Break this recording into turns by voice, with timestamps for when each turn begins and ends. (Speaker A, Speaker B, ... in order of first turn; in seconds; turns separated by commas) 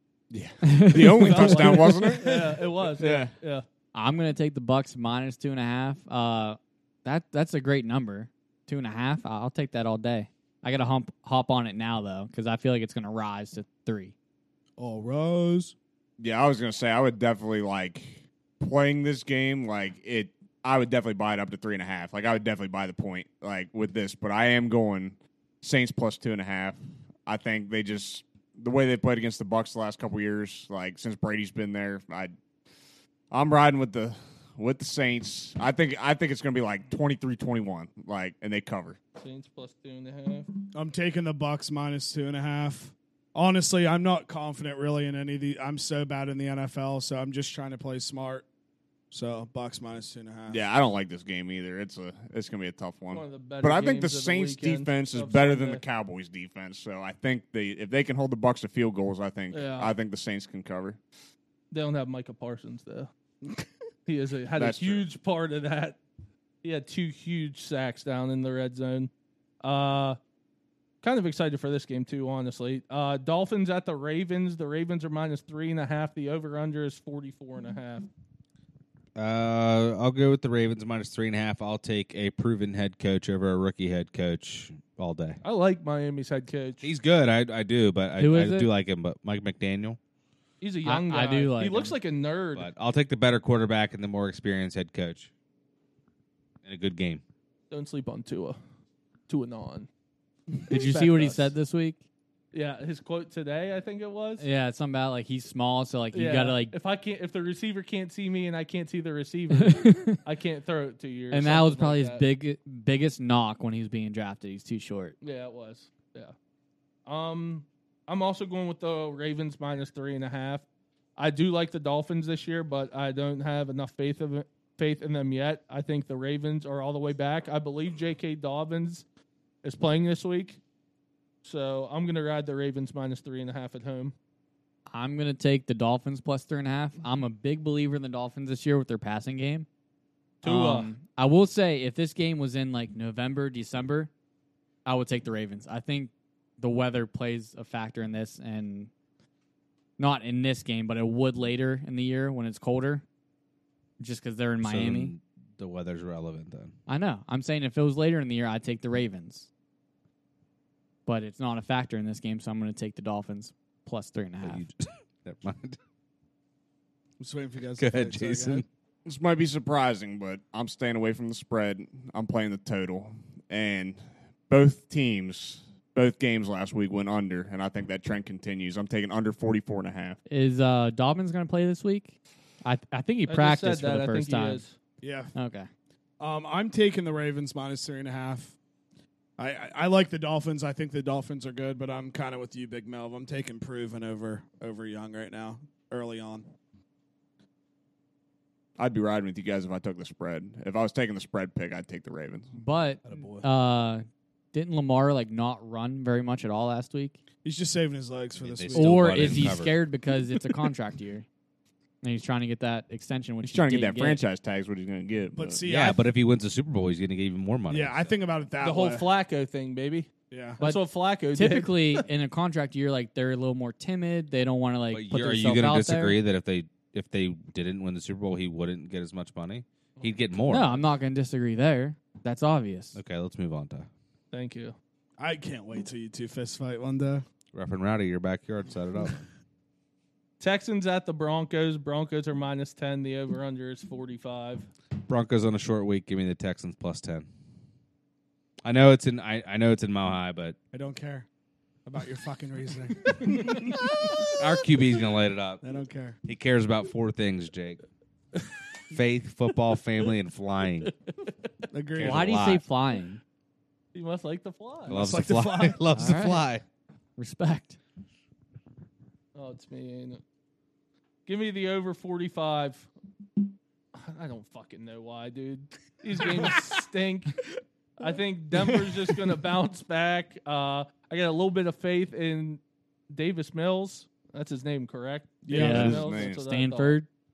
Speaker A: 0.3-2.3, Speaker B: 0.7-2.0, Speaker C: 1.3-3.6, Speaker D: 2.0-2.5, Speaker A: 2.9-3.3, Speaker B: 3.9-14.1, Speaker D: 14.8-15.7, Speaker A: 16.2-32.3, Speaker A: 33.3-39.0, Speaker C: 39.2-40.5, Speaker D: 40.7-48.4, Speaker D: 49.1-50.6, Speaker A: 50.5-61.0, Speaker C: 53.1-55.8, Speaker C: 59.5-59.9, Speaker C: 61.7-63.1, Speaker C: 64.0-66.0, Speaker A: 64.6-65.0, Speaker C: 66.6-69.1, Speaker C: 69.6-70.2, Speaker C: 71.0-78.1, Speaker E: 79.2-85.4, Speaker C: 85.4-86.9, Speaker E: 86.8-90.0, Speaker B: 88.2-88.7, Speaker C: 90.6-92.7, Speaker B: 90.8-92.0, Speaker E: 92.5-95.3, Speaker E: 96.6-97.2, Speaker C: 97.7-98.6, Speaker C: 99.3-99.9, Speaker C: 100.6-101.5, Speaker B: 100.7-102.0, Speaker C: 102.5-104.4, Speaker B: 104.4-106.7, Speaker C: 106.1-112.3, Speaker B: 109.5-110.2, Speaker B: 111.3-115.2, Speaker C: 115.2-116.3, Speaker C: 117.0-129.1, Speaker C: 129.6-130.6, Speaker C: 131.4-134.1, Speaker B: 134.9-139.7, Speaker C: 140.4-140.9, Speaker B: 140.4-144.1, Speaker B: 144.8-148.9, Speaker B: 150.0-153.0, Speaker B: 154.0-155.1, Speaker E: 154.6-156.7, Speaker B: 156.9-159.5, Speaker B: 161.1-164.6, Speaker E: 164.4-165.8, Speaker D: 167.2-168.6, Speaker E: 167.8-168.7, Speaker A: 169.1-180.2, Speaker B: 180.3-184.6, Speaker C: 183.3-184.8, Speaker D: 185.0-185.3, Speaker B: 185.3-185.7, Speaker D: 186.2-188.6, Speaker D: 189.4-196.5, Speaker A: 198.8-202.5, Speaker B: 202.6-207.2, Speaker D: 203.1-203.5, Speaker D: 207.4-209.6, Speaker E: 208.4-209.8, Speaker B: 208.7-211.3, Speaker B: 212.0-214.2, Speaker A: 213.4-215.6, Speaker D: 215.3-216.0, Speaker E: 215.7-218.1, Speaker D: 217.7-219.1, Speaker C: 218.6-220.1, Speaker D: 220.3-220.6, Speaker C: 220.6-222.0, Speaker B: 220.6-226.2, Speaker E: 224.9-230.8, Speaker B: 230.5-232.9, Speaker E: 232.9-233.9, Speaker C: 234.3-234.8, Speaker D: 235.2-237.2, Speaker E: 237.5-239.3, Speaker C: 240.4-244.7, Speaker E: 245.0-247.3, Speaker E: 248.6-250.6, Speaker D: 250.7-251.3, Speaker D: 251.8-253.9, Speaker E: 254.1-255.6, Speaker D: 255.6-256.1, Speaker E: 256.2-257.8, Speaker E: 258.9-260.9, Speaker D: 261.7-262.4, Speaker E: 261.9-262.6, Speaker B: 262.0-263.2, Speaker C: 263.9-265.0, Speaker D: 264.9-265.8, Speaker E: 264.9-266.6, Speaker B: 265.9-266.4, Speaker B: 267.2-267.8, Speaker C: 269.3-270.2, Speaker C: 271.3-272.9, Speaker C: 273.9-277.4, Speaker C: 278.0-287.0, Speaker D: 278.6-279.2, Speaker D: 285.4-286.0, Speaker B: 285.5-287.1, Speaker A: 285.5-286.4